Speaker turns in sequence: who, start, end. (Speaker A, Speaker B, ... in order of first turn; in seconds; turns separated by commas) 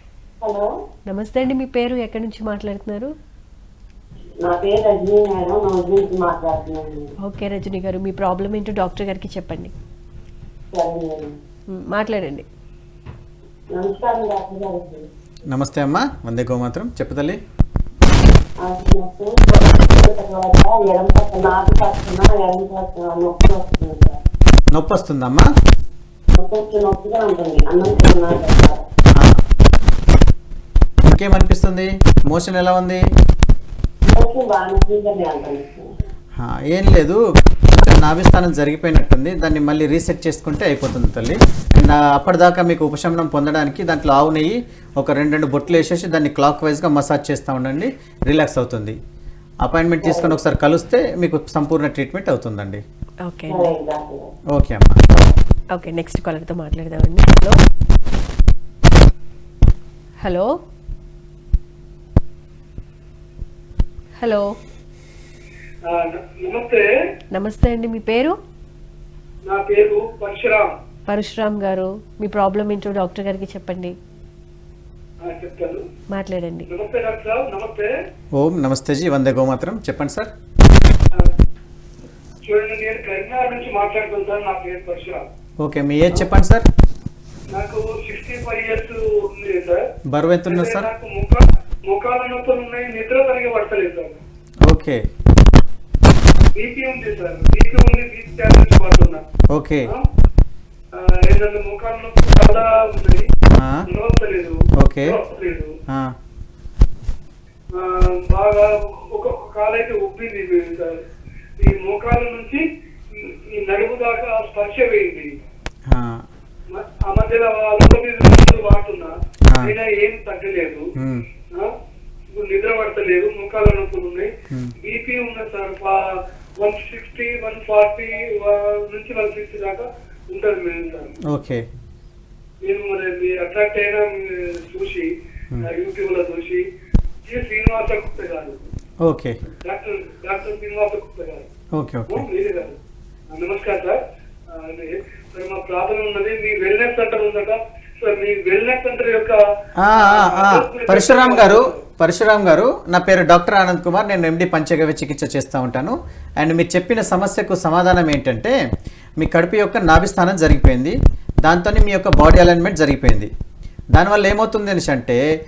Speaker A: 0.4-0.7, Speaker B: 1.1-3.1, Speaker A: 4.4-7.1, Speaker B: 7.2-9.7, Speaker A: 10.7-11.3, Speaker B: 11.7-12.5, Speaker A: 13.7-15.1, Speaker C: 15.5-17.4, Speaker A: 18.6-24.2, Speaker C: 24.7-25.5, Speaker A: 26.4-28.8, Speaker C: 29.2-29.4, Speaker C: 31.1-33.0, Speaker A: 34.1-35.9, Speaker C: 36.4-37.2, Speaker C: 37.8-49.0, Speaker C: 49.6-52.8, Speaker A: 50.0-50.4, Speaker B: 53.2-53.7, Speaker A: 53.5-54.3, Speaker C: 54.5-55.0, Speaker B: 55.7-57.6, Speaker B: 60.2-60.5, Speaker B: 64.2-64.5, Speaker D: 65.9-66.9, Speaker B: 67.3-68.4, Speaker D: 69.5-70.7, Speaker B: 71.1-74.0, Speaker D: 75.2-75.8, Speaker B: 76.1-76.7, Speaker D: 76.7-77.9, Speaker C: 78.3-80.3, Speaker D: 82.4-85.2, Speaker C: 85.6-86.7, Speaker D: 87.5-89.8, Speaker C: 90.1-90.9, Speaker D: 90.5-94.2, Speaker C: 94.7-95.0, Speaker D: 96.5-99.2, Speaker C: 99.5-99.9, Speaker D: 100.9-103.3, Speaker C: 103.5-103.8, Speaker D: 103.9-105.7, Speaker C: 104.8-105.2, Speaker D: 107.8-111.0, Speaker D: 111.6-115.3, Speaker C: 115.9-116.2, Speaker D: 116.7-120.8, Speaker C: 121.0-121.2, Speaker D: 122.3-124.3, Speaker D: 124.8-126.0, Speaker D: 126.6-131.1, Speaker C: 131.3-131.6, Speaker D: 132.6-135.1, Speaker D: 135.7-136.6, Speaker D: 137.3-138.6, Speaker C: 139.0-139.4, Speaker D: 139.7-141.5, Speaker C: 141.8-142.2, Speaker D: 142.1-142.8, Speaker D: 143.3-144.0, Speaker D: 144.5-149.4, Speaker C: 149.8-158.6, Speaker D: 150.0-151.8, Speaker C: 159.2-163.3, Speaker C: 163.9-165.2